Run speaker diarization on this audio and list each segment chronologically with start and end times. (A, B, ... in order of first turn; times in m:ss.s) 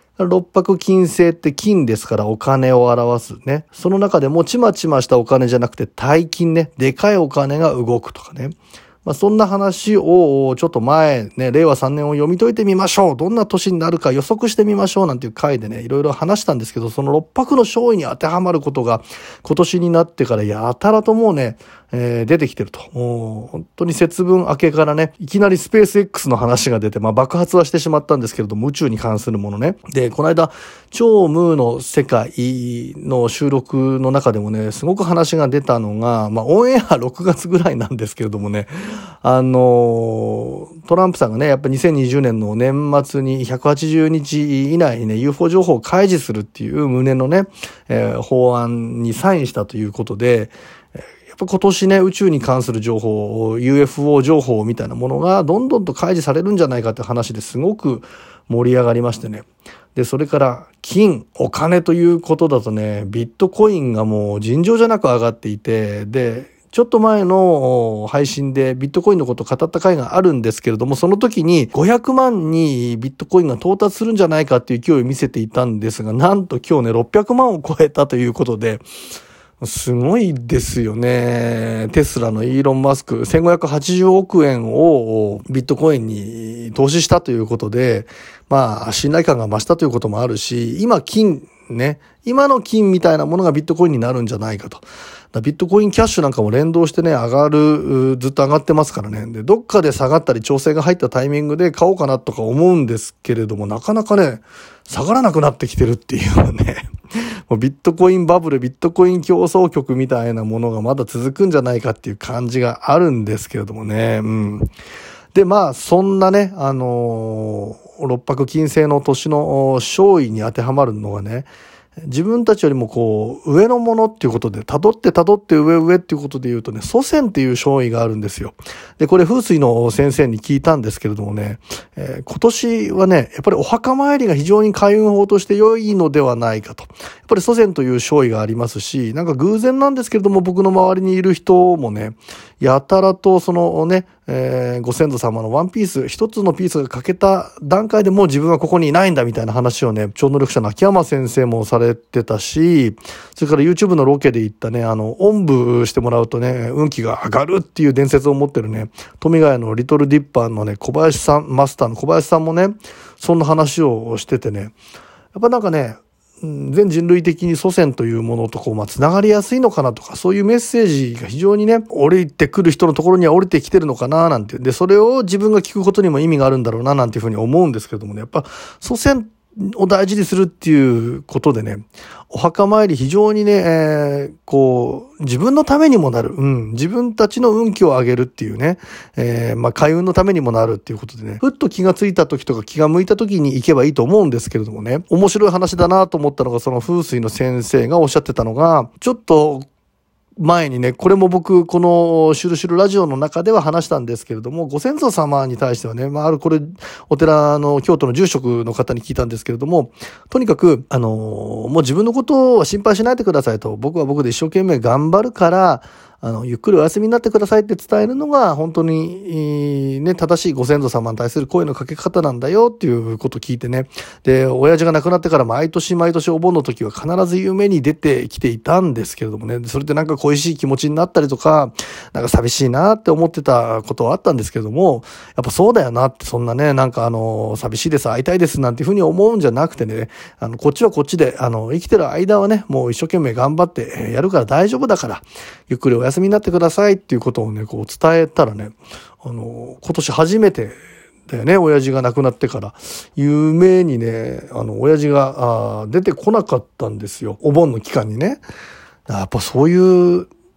0:00.2-0:38.7 A
0:39.2-0:50.5 A
0:51.3-1:18.8 A
1:19.6-1:46.8 A
1:47.5-1:54.7 A
1:55.3-2:44.7 A
2:45.3-3:19.6 A
3:20.4-4:18.4 A
4:19.1-4:20.3 A